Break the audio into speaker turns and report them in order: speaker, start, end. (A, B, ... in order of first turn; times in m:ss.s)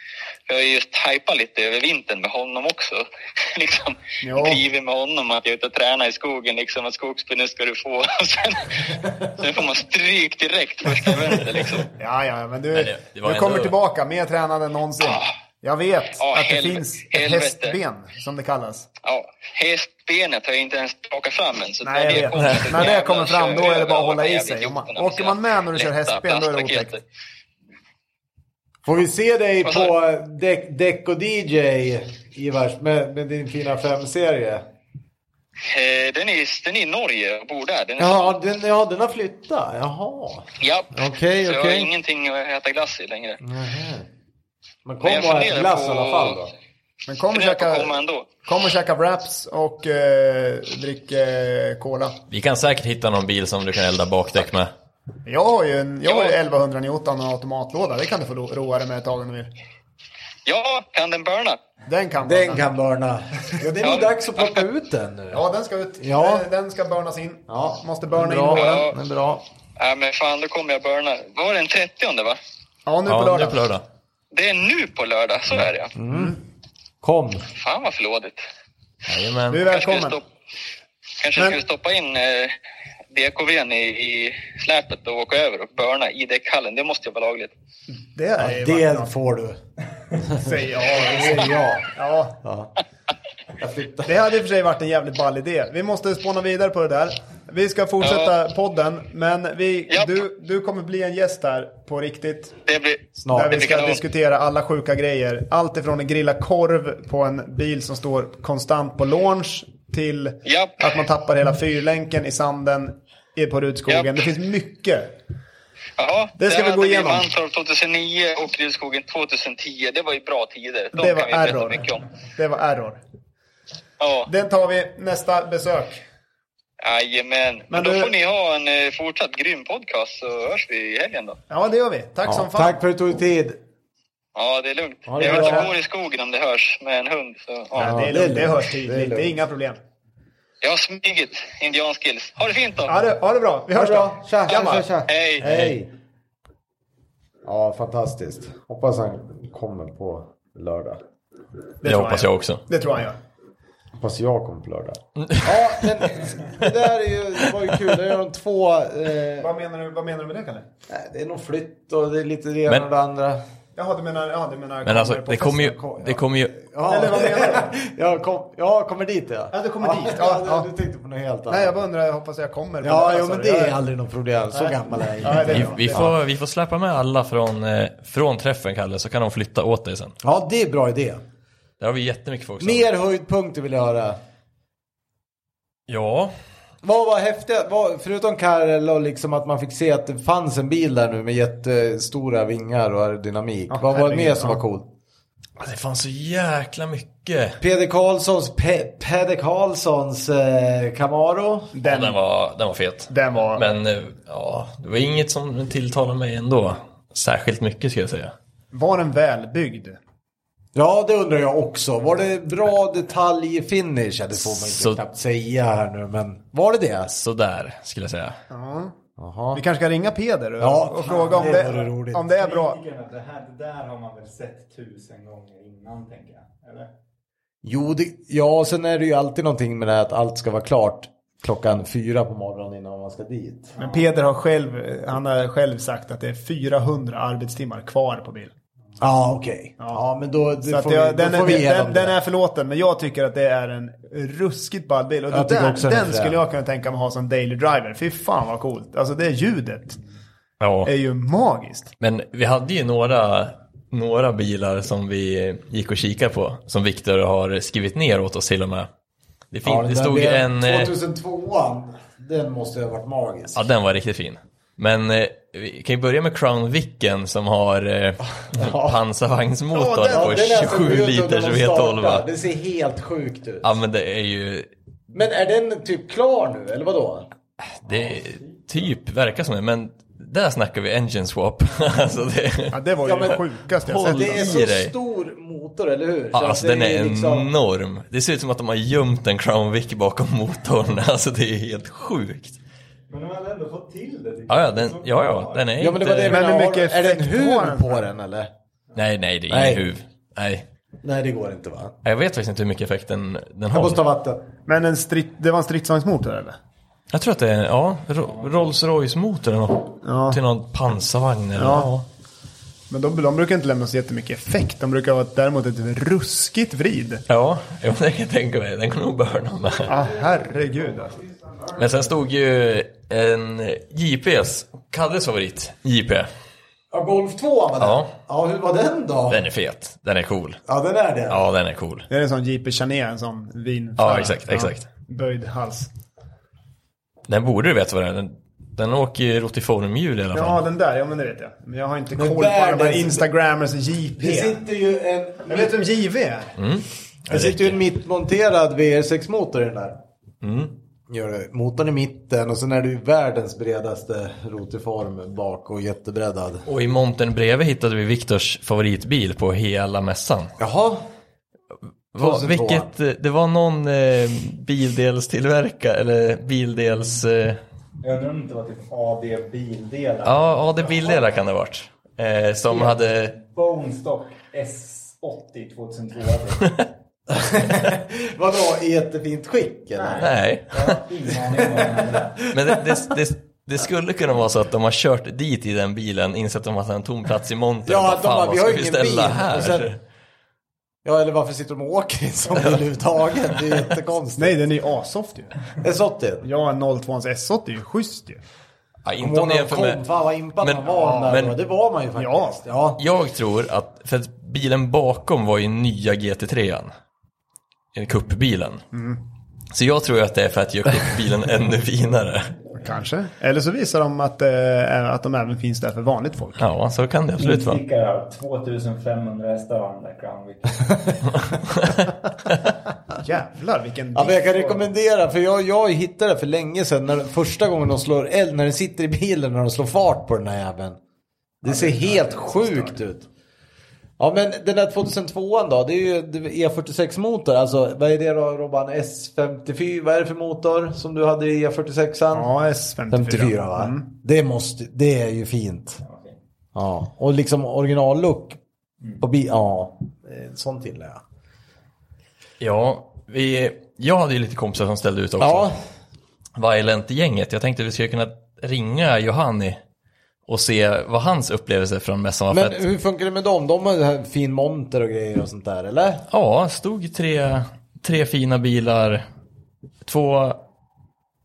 0:00.5-0:11.9 A
0:04.2-0:04.6 B
0:11.9-0:18.9 B
0:12.7-0:13.8 C
0:15.0-0:15.3 A
0:16.1-0:17.8 A
0:19.0-0:27.0 A
0:21.8-0:27.0 B
0:22.3-0:22.9 C
0:28.8-0:34.6 D
0:29.6-0:29.9 A
0:35.7-0:38.4 A
0:38.0-0:41.9 D
0:40.6-0:43.4 A
0:43.4-0:44.1 D
0:44.8-0:46.5 D
0:45.0-0:46.4 A
0:47.1-0:52.2 B
0:47.3-0:48.3 A
0:52.3-0:54.7 C
0:55.3-0:59.5 B
0:56.0-0:56.4 A
1:00.5-1:01.6 A
1:01.9-1:02.7 B
1:02.2-1:05.4 D
1:03.8-1:04.6 A
1:05.3-1:08.9 B
1:06.0-1:06.5 D
1:07.5-1:09.4 D
1:08.5-1:09.0 A
1:09.8-1:12.4 A
1:12.9-1:13.7 B
1:13.1-1:13.8 C
1:14.3-1:15.9 A
1:16.0-1:16.4 D
1:16.1-1:16.4 B
1:17.0-1:17.4 D
1:17.5-1:18.4 A
1:19.1-1:19.7 C
1:19.5-1:20.2 B
1:19.6-1:20.2 A
1:21.2-1:22.6 A
1:23.1-1:27.5 A
1:28.1-1:29.1 B
1:28.4-1:29.6 D
1:30.2-1:31.9 D
1:30.4-1:32.4 B
1:32.4-1:32.7 D
1:33.6-1:34.1 D
1:34.1-1:42.6 B
1:38.0-1:38.3 A
1:39.9-1:40.2 A
1:42.7-1:44.0 A
1:43.2-1:43.6 D
1:43.3-1:55.1 B
1:50.4-1:50.8 A
1:53.9-1:54.2 A
1:56.0-2:02.0 A
1:56.4-1:57.3 B
2:00.9-2:03.0 B
2:04.0-2:04.3 A
2:04.3-2:06.0 B
2:06.8-2:11.4 A
2:07.7-2:08.1 B
2:11.5-2:12.8 B
2:12.3-2:13.6 D
2:14.4-2:18.0 A
2:15.1-2:15.7 D
2:15.2-2:15.7 B
2:17.8-2:19.8 B
2:17.8-2:19.4 D
2:20.6-2:23.0 A
2:22.9-2:24.9 B
2:23.7-2:25.9 D
2:24.5-2:25.5 A
2:25.4-2:25.8 C
2:27.4-2:31.0 D
2:31.8-2:33.2 B
2:31.8-2:32.6 C
2:34.0-2:39.5 D
2:35.2-2:35.9 C
2:39.4-2:40.7 B
2:40.9-2:43.4 D
2:43.8-2:45.8 B
2:44.9-2:46.6 C
2:45.6-2:51.8 D
2:46.8-2:47.7 B
2:49.5-2:50.7 B
2:51.5-2:53.8 B
2:52.8-2:56.2 D
2:54.5-2:56.0 B
2:55.4-3:00.2 C
3:00.2-3:01.2 D
3:01.8-3:02.9 C
3:02.6-3:04.2 D
3:05.9-3:06.3 C
3:06.8-3:14.9 D
3:13.7-3:14.6 B
3:15.6-3:17.6 C
3:17.6-3:21.7 D
3:21.7-3:22.2 B
3:21.8-3:28.3 C
3:23.1-3:23.6 B
3:28.7-3:30.0 B
3:30.8-3:37.1 D
3:34.5-3:35.0 C
3:37.1-3:38.4 C
3:38.5-3:38.9 B
3:39.2-3:39.6 D
3:39.5-3:42.8 B
3:40.6-3:42.2 D
3:41.2-3:46.9 E
3:47.6-3:53.7 D
3:53.8-3:58.5 B
3:59.0-4:02.2 D
4:00.6-4:10.0 B
4:05.3-4:06.4 D
4:10.6-4:10.9 C
4:10.8-4:11.9 B
4:12.0-4:18.9 C
4:19.5-4:21.0 C
4:19.6-4:23.6 D
4:23.5-4:32.3 C
4:28.4-4:29.0 D
4:29.7-4:30.6 B
4:30.1-4:33.8 D
4:33.6-4:34.7 C
4:35.1-4:37.3 D
4:37.8-4:42.8 C
4:42.7-4:44.4 B
4:43.0-4:47.5 D
4:44.0-4:44.9 C
4:46.3-4:52.6 C
4:53.1-4:55.9 E
4:54.5-4:56.4 C
4:55.8-4:58.5 D
4:56.3-4:58.0 B
4:59.0-5:00.7 C
4:59.5-4:59.9 D
5:01.0-5:02.0 D
5:02.0-5:04.0 C
5:03.7-5:04.4 D
5:04.7-5:06.6 B
5:07.1-5:12.1 C
5:10.0-5:10.4 B
5:11.6-5:11.9 B
5:12.9-5:17.2 B
5:17.3-5:19.9 C
5:19.9-5:21.2 B
5:21.8-5:26.3 C
5:26.9-5:29.4 D
5:27.8-5:28.1 C
5:29.3-5:30.6 C
5:30.7-5:31.4 D
5:31.3-5:32.1 C
5:32.1-5:35.9 B
5:34.0-5:34.9 C
5:37.3-5:40.6 C
5:40.3-5:44.6 B
5:42.1-5:43.3 D
5:44.2-5:45.8 D
5:45.5-5:46.5 B
5:46.6-5:47.8 C
5:47.3-5:50.0 D
5:50.4-5:50.8 C
5:51.1-5:56.7 D
5:56.7-6:00.5 C
6:00.6-6:01.0 D
6:02.1-6:07.6 C
6:02.2-6:02.9 D
6:08.0-6:11.4 E
6:10.2-6:13.4 C
6:12.7-6:16.7 E
6:17.3-6:20.3 D
6:20.0-6:22.5 E
6:20.2-6:21.0 C
6:22.5-6:30.0 C
6:27.9-6:29.9 D
6:31.0-6:34.6 D
6:34.4-6:35.6 B
6:35.8-6:36.5 D
6:36.4-6:38.4 B
6:39.0-6:40.0 C
6:39.2-6:43.0 D
6:40.6-6:41.6 C
6:42.2-6:42.6 B
6:43.0-6:46.9 C
6:47.9-6:48.8 C
6:48.9-6:49.2 B
6:49.7-6:52.5 C
6:52.8-6:56.6 B
6:56.6-6:57.8 C
6:57.4-7:01.2 E
7:03.2-7:04.7 B
7:04.2-7:11.0 D
7:11.6-7:13.3 D
7:11.7-7:13.0 B
7:14.2-7:22.5 D
7:22.3-7:24.1 B
7:23.1-7:26.0 D
7:26.0-7:26.3 E
7:26.8-7:28.6 D
7:29.2-7:31.2 D
7:32.6-7:35.7 C
7:35.4-7:35.7 D
7:36.6-7:39.8 C
7:40.5-7:42.8 C
7:42.5-7:46.2 D
7:46.3-7:49.2 C
7:50.0-7:50.6 C